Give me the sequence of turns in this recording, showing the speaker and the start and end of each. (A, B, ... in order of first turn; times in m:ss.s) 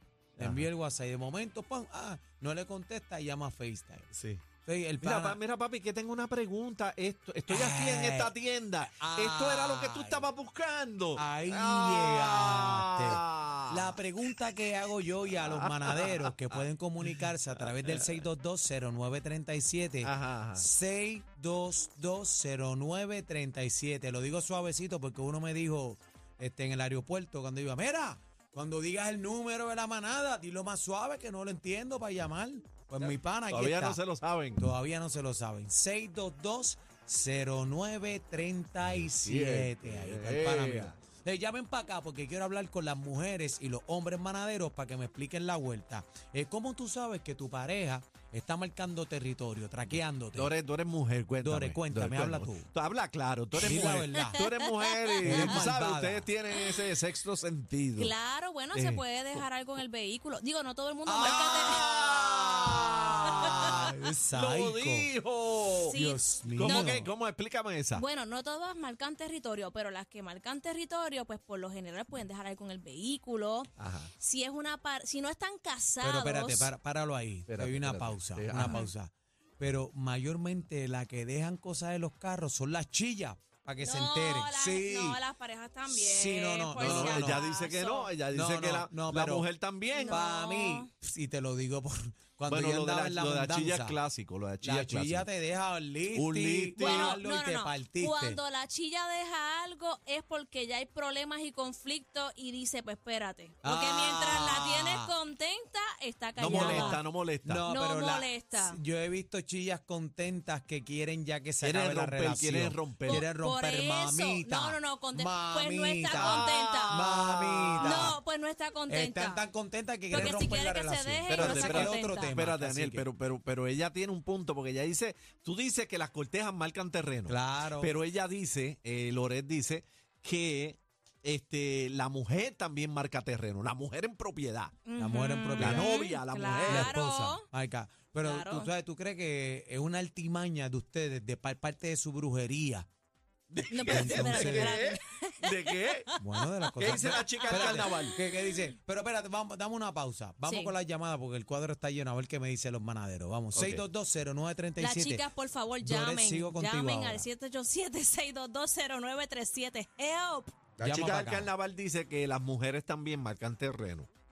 0:00.4-0:00.7 A
0:00.4-0:05.4 B
0:04.1-0:04.4 A
0:05.0-0:14.0 A
0:07.5-0:10.3 B
0:11.2-0:34.0 B
0:15.4-0:18.2 A
0:20.0-0:20.6 A
0:33.0-0:34.7 A
0:34.6-0:50.5 B
0:38.8-0:41.0 A
0:50.4-0:58.1 A
0:51.4-0:52.7 B
0:53.6-0:54.4 B
0:54.2-0:55.6 C
0:55.2-0:56.3 B
0:58.0-1:01.8 C
0:58.7-0:59.4 A
1:01.1-1:05.1 B
1:01.2-1:08.1 A
1:03.3-1:03.6 C
1:05.9-1:07.0 C
1:05.9-1:07.1 B
1:08.0-1:16.7 C
1:13.8-1:14.1 A
1:16.0-1:25.2 B
1:17.5-1:18.8 A
1:18.6-1:18.9 C
1:23.8-1:28.1 C
1:25.9-1:27.4 B
1:26.8-1:30.2 A
1:28.3-1:29.5 B
1:29.9-1:30.9 C
1:30.1-1:34.0 B
1:32.5-1:35.3 A
1:34.6-1:38.4 B
1:36.1-1:37.2 A
1:36.8-1:47.0 C
1:43.6-1:45.1 B
1:46.4-1:47.7 A
1:46.4-1:58.2 B
1:47.7-1:48.8 C
1:51.6-1:53.3 A
1:53.1-1:57.0 C
1:56.1-1:58.2 A
1:57.8-1:59.5 C
1:58.9-2:03.1 B
2:00.1-2:00.5 A
2:00.1-2:02.4 C
2:01.3-2:14.8 A
2:07.3-2:08.0 B
2:14.8-2:17.4 C
2:15.0-2:15.9 B
2:15.6-2:16.9 A
2:16.6-2:22.9 B
2:18.2-2:18.7 C
2:23.5-2:26.1 A
2:23.7-2:26.2 C
2:23.9-2:24.8 B
2:26.2-2:35.3 B
2:26.8-2:28.2 A
2:26.8-2:28.2 C
2:30.4-2:30.8 C
2:33.5-2:33.8 A
2:34.8-2:40.6 C
2:35.8-2:37.3 B
2:40.8-2:44.1 A
2:40.8-2:41.5 B